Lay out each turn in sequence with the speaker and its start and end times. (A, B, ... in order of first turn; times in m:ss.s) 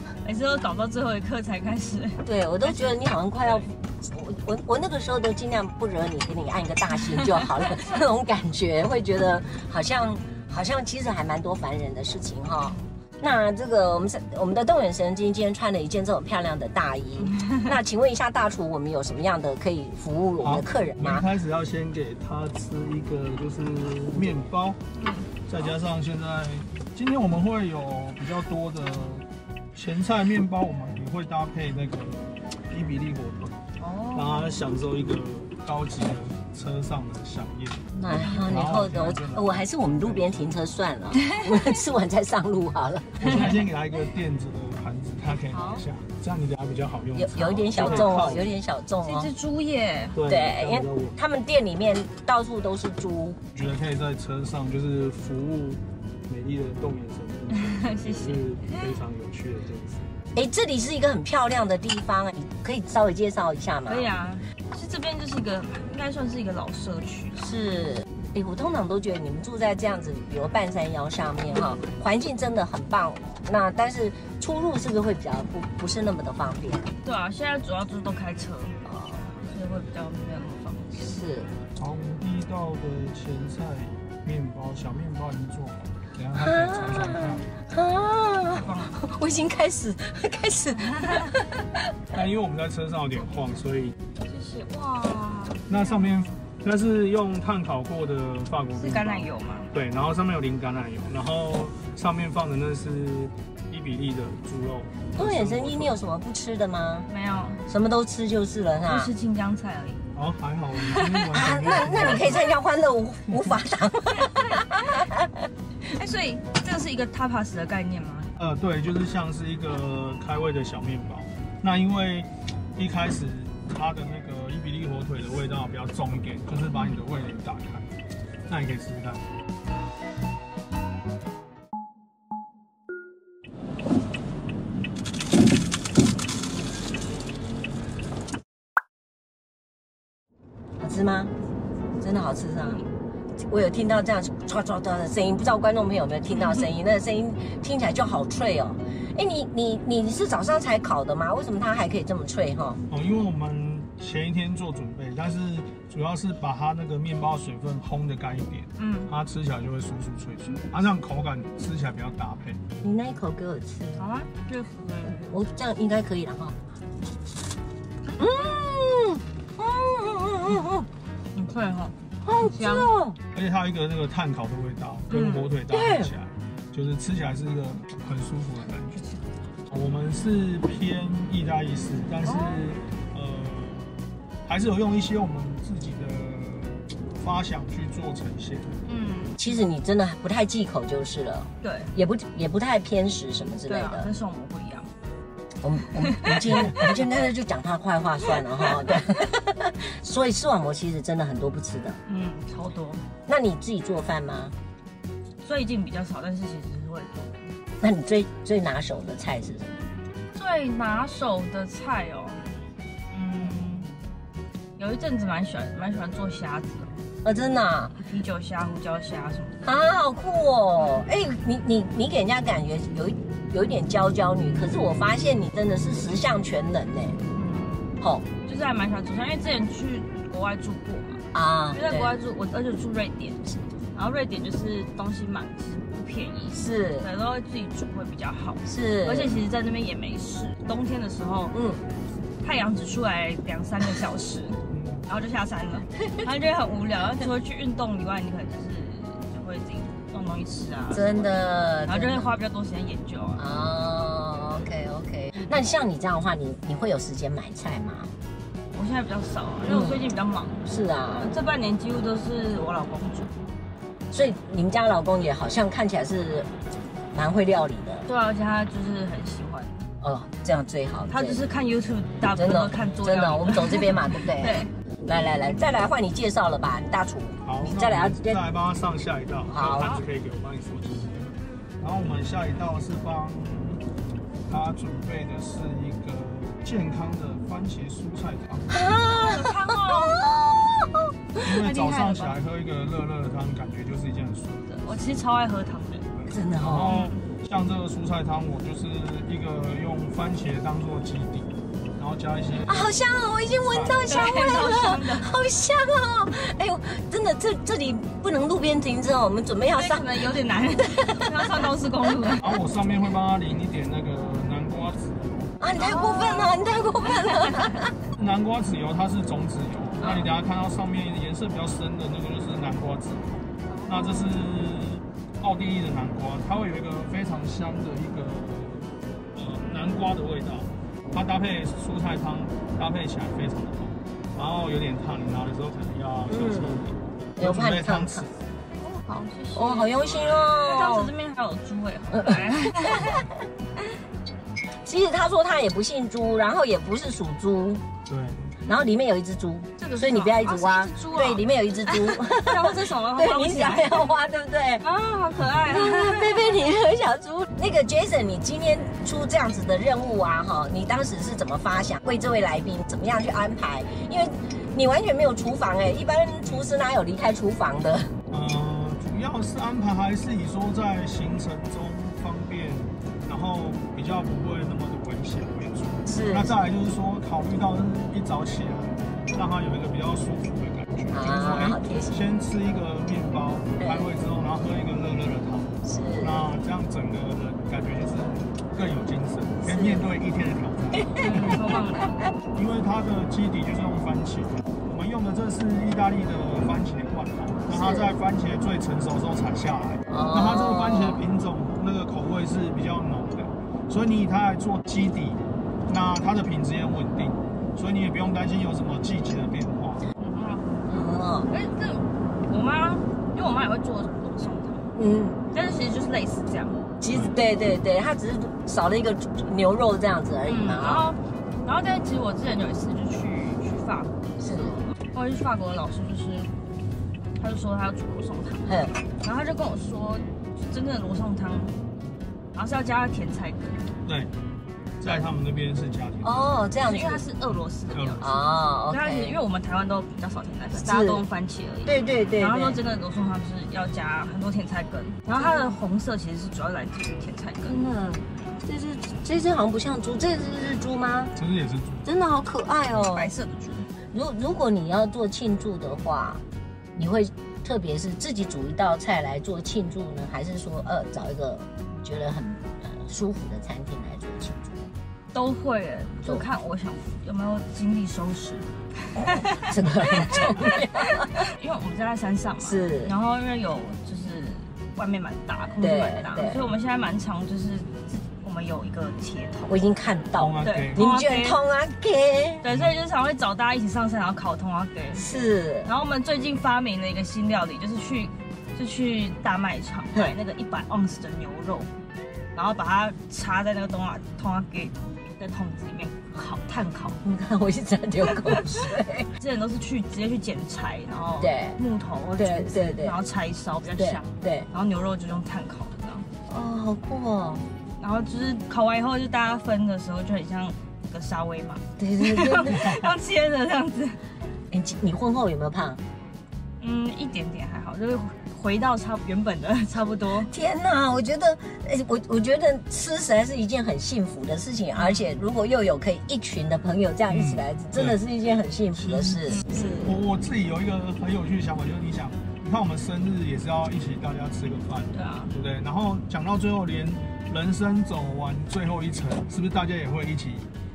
0:00.2-0:02.9 A
0:02.2-0:21.2 B
0:07.3-0:07.6 A
0:17.3-0:17.6 A
0:20.4-0:24.8 C
0:25.0-0:25.3 A
0:25.5-0:33.6 C
0:33.8-0:34.6 A
0:34.1-0:40.6 C
0:37.9-0:43.5 B
0:41.2-0:41.7 A
0:43.2-0:48.5 C
0:45.5-0:45.8 A
0:47.2-0:49.3 B
0:47.8-0:48.3 A
0:49.0-0:50.2 A
0:50.1-0:51.2 C
0:50.2-0:53.4 B
0:53.5-1:00.1 C
0:57.5-0:58.9 A
1:00.4-1:04.1 B
1:03.9-1:07.5 A
1:07.4-1:16.9 B
1:17.0-1:18.8 A
1:18.8-1:19.3 B
1:19.4-1:21.1 A
1:21.0-1:21.5 B
1:21.8-1:27.5 C
1:26.4-1:31.9 B
1:28.5-1:29.0 A
1:30.9-1:31.3 A
1:32.1-1:34.0 C
1:34.3-1:36.0 A
1:35.7-1:46.0 C
1:38.8-1:39.7 A
1:45.2-1:47.1 B
1:47.1-1:47.6 A
1:47.7-1:49.1 B
1:48.8-1:50.0 A
1:50.2-1:52.5 C
1:50.8-1:51.4 A
1:51.3-1:55.5 B
1:55.8-1:58.3 A
1:58.4-2:07.9 C
2:08.5-2:09.2 C
2:20.8-2:21.3 B
2:22.0-2:22.8 B
2:23.5-2:32.8 B
2:32.9-2:42.6 C
2:38.8-2:39.1 A
2:42.8-2:44.1 B
2:44.0-2:45.3 A
2:45.1-2:46.6 B
2:48.2-2:50.9 B
2:51.4-2:52.9 A
2:52.2-2:53.2 B
2:53.3-2:59.0 C
2:55.1-2:55.5 A
2:55.7-2:56.1 B
2:58.9-2:59.2 A
2:59.7-3:08.8 C
3:02.2-3:02.6 A
3:08.9-3:09.5 A
3:09.4-3:14.1 B
3:11.6-3:11.9 A
3:13.7-3:14.9 A
3:15.6-3:22.0 B
3:16.0-3:17.0 A
3:18.4-3:19.0 A
3:22.1-3:23.0 A
3:23.3-3:24.5 B
3:25.4-3:27.5 A
3:27.8-3:29.8 B
3:30.3-3:32.4 A
3:33.1-3:33.9 A
3:34.8-3:36.9 A
3:37.2-3:38.0 B
3:38.0-3:39.7 A
3:39.6-3:47.2 B
3:47.4-3:47.9 A
3:48.0-3:48.2 B
3:48.4-4:01.6 A
3:51.3-3:52.2 B
3:56.5-3:57.1 B
3:58.7-3:59.4 B
4:01.5-4:01.8 B
4:02.4-4:13.4 A
4:04.7-4:05.1 C
4:06.0-4:06.3 B
4:10.9-4:12.3 B
4:13.4-4:18.1 B
4:18.7-4:23.3 A
4:19.7-4:20.0 B
4:20.6-4:21.3 B
4:24.1-4:26.5 B
4:27.1-4:28.1 B
4:28.1-4:29.8 A
4:30.0-4:31.4 B
4:31.1-4:34.7 A
4:32.4-4:38.4 B
4:37.4-4:43.8 C
4:39.5-4:40.0 B
4:39.8-4:40.0 A
4:44.5-4:48.7 C
4:48.7-4:51.4 B
4:49.0-4:50.3 A
4:51.4-4:54.8 C
4:51.6-4:52.4 A
4:54.7-4:56.1 A
4:56.2-5:03.0 C
4:56.3-4:57.0 B
4:56.8-4:57.2 A
5:02.7-5:10.2 B
5:03.6-5:04.0 C
5:04.1-5:05.3 A
5:09.7-5:12.6 A
5:10.9-5:11.6 B
5:12.4-5:15.6 C
5:15.6-5:17.9 B
5:15.8-5:17.8 A
5:18.2-5:38.3 C
5:20.0-5:20.3 A
5:23.7-5:24.4 A
5:36.3-5:36.8 B
5:37.4-5:38.3 B
5:38.8-5:43.2 A
5:39.6-5:41.1 B
5:42.1-5:43.4 B
5:44.8-5:47.8 B
5:48.1-5:48.5 C
5:48.7-5:54.8 B
5:49.8-5:54.1 A
5:54.8-5:56.6 A
5:55.7-6:08.1 B
6:08.3-6:31.2 C
6:16.1-6:16.5 B
6:21.1-6:22.2 B
6:23.8-6:24.1 B
6:25.8-6:26.5 B
6:29.6-6:30.1 B
6:31.0-6:31.8 B
6:31.2-6:32.2 A
6:32.6-6:50.0 C
6:37.7-6:38.1 B
6:40.1-6:41.2 B
6:50.2-6:50.9 A
6:50.9-6:51.5 B
6:51.5-6:54.9 A
6:55.0-6:55.4 B
6:55.5-6:56.8 A
6:57.0-7:01.1 B
7:00.5-7:06.5 A
7:04.4-7:04.8 B
7:07.4-7:08.6 A
7:08.7-7:09.0 B
7:09.2-7:11.7 A
7:12.6-7:13.8 A
7:14.0-7:14.3 C
7:15.0-7:16.6 C
7:16.2-7:17.2 B
7:16.9-7:27.8 A
7:17.9-7:18.3 C
7:18.2-7:19.4 B
7:20.8-7:21.2 B
7:21.9-7:22.8 B
7:25.4-7:25.7 B
7:27.6-7:31.3 B
7:31.4-7:32.1 C
7:32.0-7:33.3 B
7:32.9-7:33.9 A
7:34.1-7:36.4 B
7:37.0-7:44.9 B
7:45.3-7:59.8 A
7:49.2-7:51.5 B
7:52.6-7:53.1 B
7:55.8-7:56.6 B
7:59.7-8:02.6 B
8:00.4-8:01.1 C
8:00.6-8:01.6 A
8:02.6-8:05.2 A
8:05.2-8:05.9 B
8:05.9-8:11.9 A
8:12.6-8:17.2 A
8:17.2-8:19.3 B
8:19.4-8:26.3 A
8:21.4-8:21.8 B
8:22.4-8:23.2 B
8:24.0-8:24.7 B
8:26.5-8:27.6 B
8:28.0-8:34.2 A
8:32.0-8:33.0 B
8:34.7-8:36.0 B
8:36.8-8:40.5 A
8:40.5-8:50.1 B
8:45.0-8:45.4 A
8:47.3-8:48.2 C
8:49.5-8:50.0 A
8:50.0-9:00.7 C
8:55.1-8:55.5 A